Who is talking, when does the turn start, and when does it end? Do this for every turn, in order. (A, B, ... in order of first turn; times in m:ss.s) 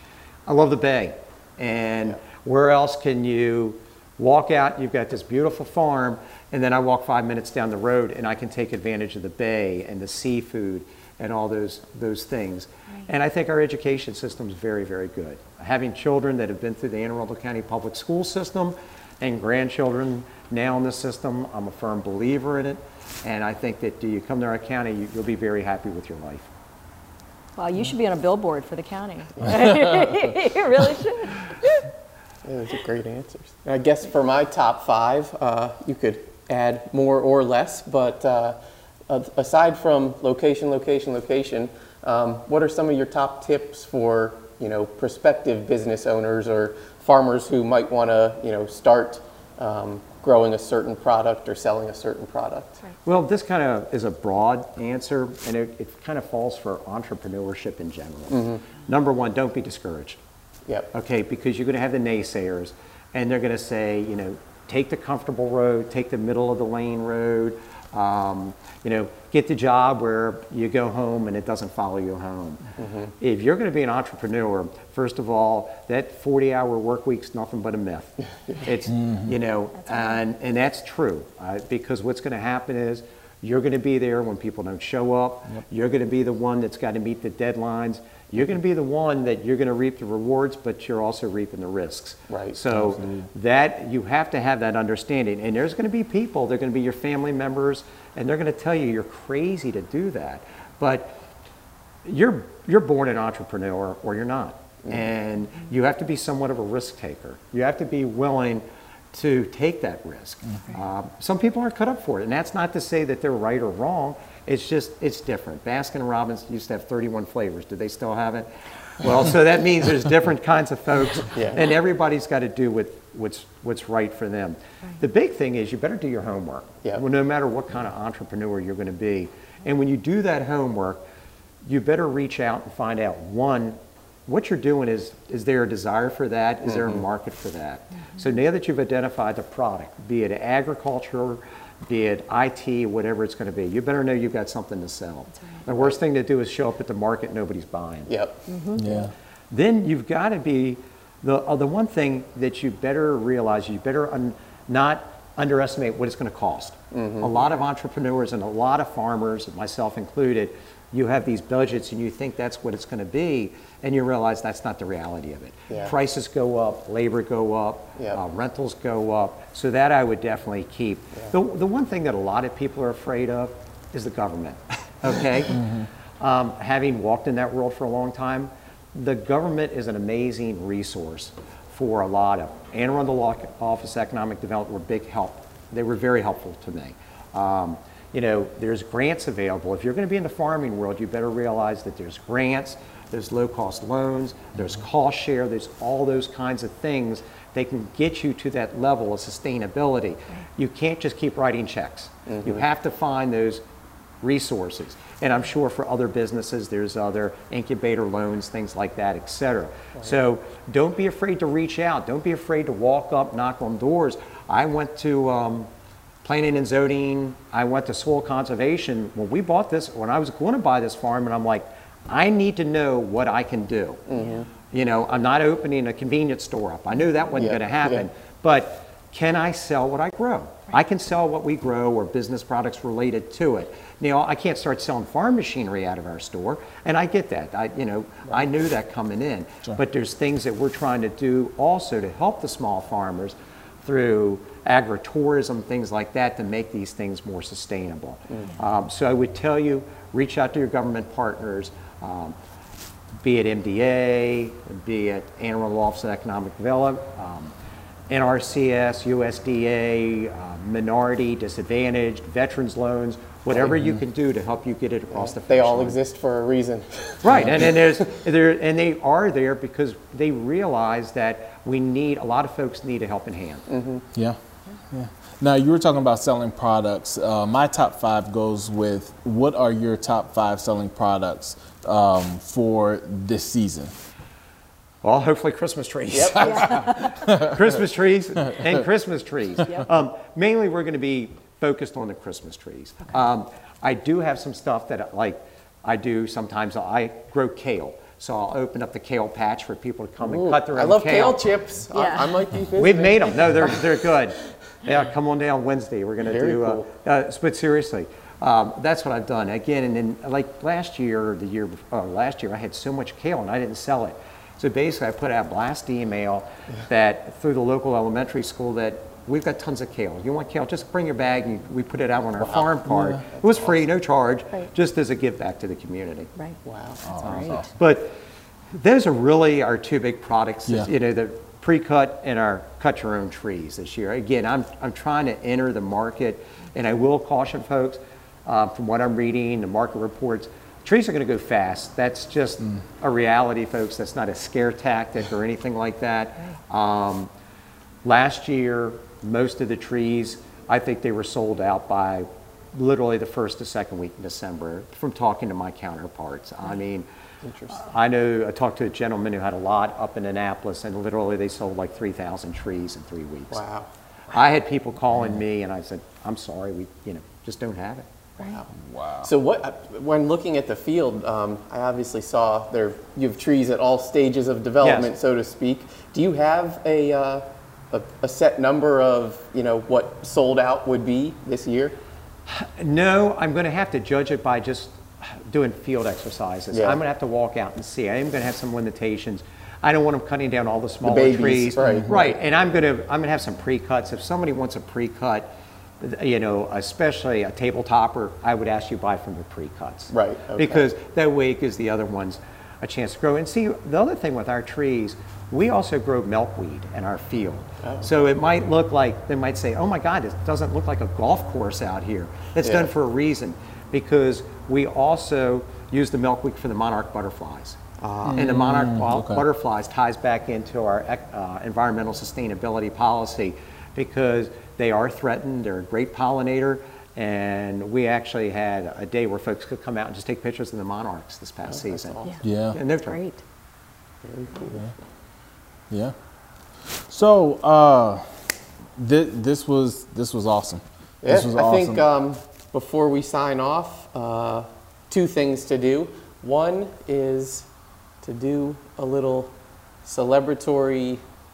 0:00.5-0:26.5 A
0:27.6-0:31.9 B
0:32.4-0:38.6 C
0:39.1-0:52.8 C
0:53.0-1:00.2 A
0:58.3-0:58.6 C
1:00.9-1:41.2 A
1:12.8-1:13.1 C
1:18.9-1:19.3 D
1:32.3-1:32.6 C
1:32.7-1:33.3 D
1:42.0-2:11.0 A
2:11.6-2:28.1 A
2:28.1-2:28.4 C
2:28.5-2:28.8 B
2:28.8-2:29.1 D
2:29.5-3:23.6 A
2:36.9-2:37.3 C
3:22.3-3:22.6 C
3:24.2-3:35.7 A
3:36.2-3:44.1 A
3:44.1-3:44.5 C
3:44.7-4:12.4 A
3:47.4-3:48.1 C
4:13.2-4:17.5 A
4:18.1-4:26.0 A
4:25.1-4:27.8 C
4:27.2-4:33.7 A
4:27.3-4:27.6 D
4:33.7-4:34.0 C
4:34.9-4:43.9 D
4:45.0-5:01.4 A
4:46.1-4:46.8 C
4:47.1-4:47.6 D
5:00.2-5:03.8 C
5:02.0-5:02.4 B
5:02.8-5:26.3 A
5:06.2-5:06.9 C
5:22.9-5:23.2 D
5:26.6-5:27.6 C
5:27.0-5:27.7 D
5:27.2-5:27.6 B
5:27.2-5:28.2 A
5:28.7-5:47.3 A
5:48.0-5:57.1 A
5:57.4-5:57.8 C
5:57.7-6:03.6 A
6:03.5-6:03.9 C
6:04.3-6:08.1 A
6:08.4-6:08.7 C
6:08.8-6:09.3 D
6:09.2-6:22.0 C
6:14.8-6:15.1 A
6:22.5-6:35.5 A
6:26.7-6:27.0 C
6:31.0-6:32.4 C
6:36.0-6:57.8 A
6:40.1-6:40.9 C
6:47.8-6:48.1 C
6:52.6-6:52.9 C
6:58.0-6:58.5 C
6:58.3-6:59.4 D
6:58.3-7:12.2 A
7:11.7-7:12.4 C
7:12.2-7:13.4 B
7:12.4-7:12.8 D
7:12.7-7:13.2 A
7:14.2-7:14.9 C
7:15.9-7:16.2 D
7:16.8-7:18.3 D
7:19.0-7:22.0 D
7:21.2-7:27.7 C
7:28.2-7:29.5 C
7:30.0-7:31.2 C